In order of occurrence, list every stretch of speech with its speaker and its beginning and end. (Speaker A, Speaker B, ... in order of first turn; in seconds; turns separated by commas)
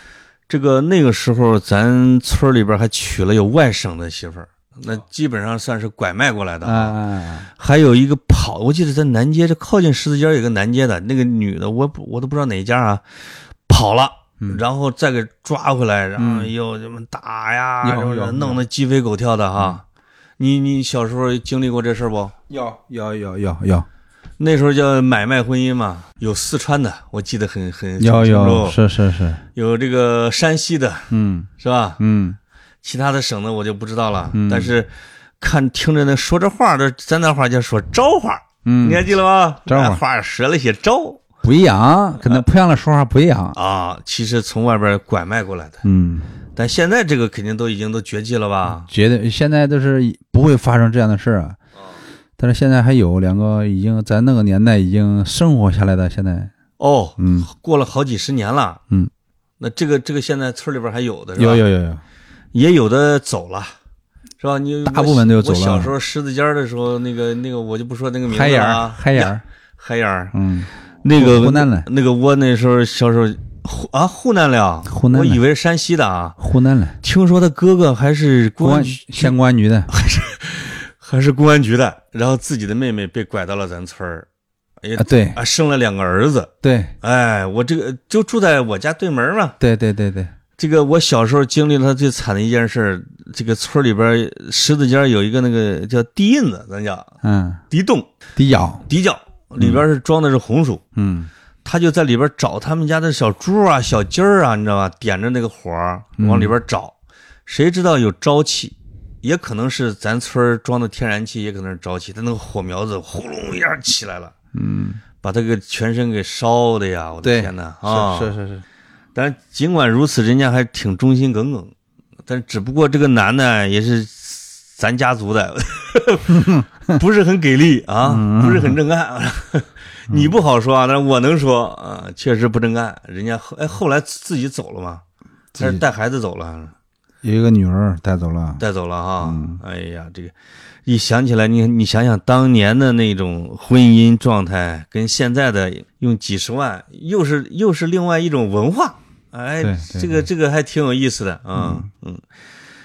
Speaker A: 0.5-7.0, Speaker B: 6.6-7.5, Speaker A: 7.6-13.0, Speaker A: 13.7-19.8, Speaker B: 16.2-16.5, Speaker B: 17.8-18.6, Speaker A: 20.4-22.3, Speaker B: 22.5-23.9, Speaker A: 24.4-28.8, Speaker B: 28.0-29.4, Speaker A: 29.6-32.0, Speaker B: 31.1-32.4, Speaker A: 32.8-41.2, Speaker B: 34.3-34.7, Speaker B: 38.6-39.1, Speaker B: 39.7-40.0, Speaker B: 41.4-43.6, Speaker A: 43.5-45.8, Speaker B: 45.8-46.3, Speaker A: 46.5-48.9, Speaker B: 48.7-51.6, Speaker B: 52.4-56.5, Speaker A: 56.8-58.8, Speaker B: 57.2-57.5, Speaker A: 59.6-61.6, Speaker B: 61.4-62.0, Speaker A: 62.5-63.8, Speaker A: 64.4-70.3, Speaker B: 64.8-65.9, Speaker B: 68.3-69.4, Speaker B: 70.3-71.9, Speaker A: 71.0-76.4, Speaker B: 74.9-75.4, Speaker B: 76.4-77.0, Speaker A: 77.0-79.3, Speaker B: 78.6-79.9, Speaker A: 79.9-84.3, Speaker A: 84.8-89.6, Speaker B: 85.0-85.4, Speaker B: 86.6-87.0, Speaker B: 89.6-90.3, Speaker A: 90.6-97.1, Speaker B: 97.2-97.6, Speaker A: 97.7-98.1, Speaker B: 98.4-98.9, Speaker A: 98.9-100.8, Speaker B: 99.6-99.8, Speaker B: 101.0-101.3, Speaker A: 101.6-114.3, Speaker B: 106.2-106.5, Speaker B: 114.5-115.0, Speaker A: 115.2-118.4, Speaker B: 117.2-118.7, Speaker A: 119.2-121.7, Speaker A: 122.3-135.0, Speaker B: 126.3-127.0, Speaker B: 128.0-128.8, Speaker B: 135.5-135.8, Speaker A: 135.6-136.7, Speaker B: 137.2-138.6, Speaker A: 138.6-140.3, Speaker B: 139.2-139.6, Speaker A: 140.9-152.2, Speaker B: 149.6-150.3, Speaker B: 151.6-151.9